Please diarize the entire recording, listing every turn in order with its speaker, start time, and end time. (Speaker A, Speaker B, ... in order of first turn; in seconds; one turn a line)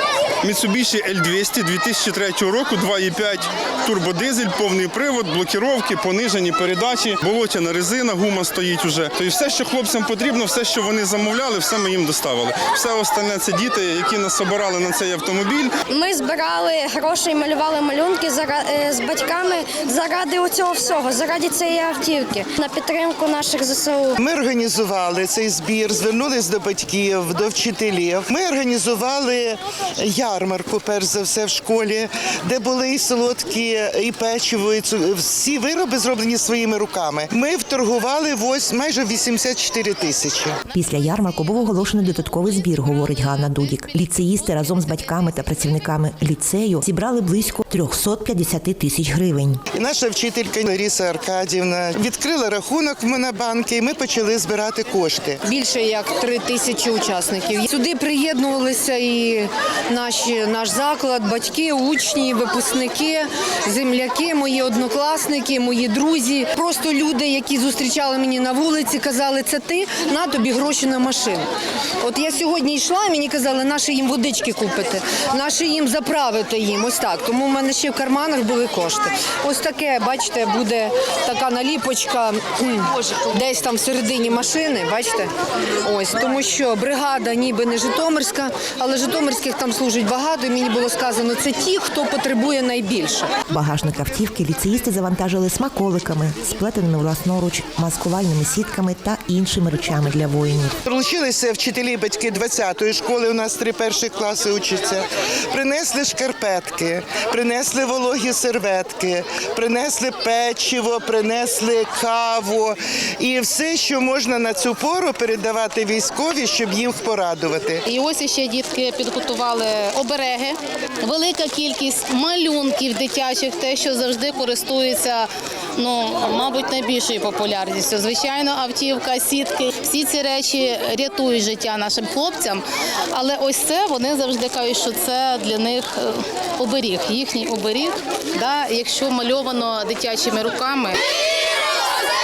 Speaker A: 0.4-15.7
Speaker B: 15.9-24.2
Speaker C: 24.2-40.6
Speaker D: 40.7-41.4
Speaker E: 40.7-49.6
Speaker C: 49.7-55.4
Speaker F: 55.5-71.5
Speaker F: 72.0-85.3
Speaker F: 85.8-93.3
Speaker E: 93.5-100.8
Speaker C: 100.9-117.8
Speaker D: 117.9-141.0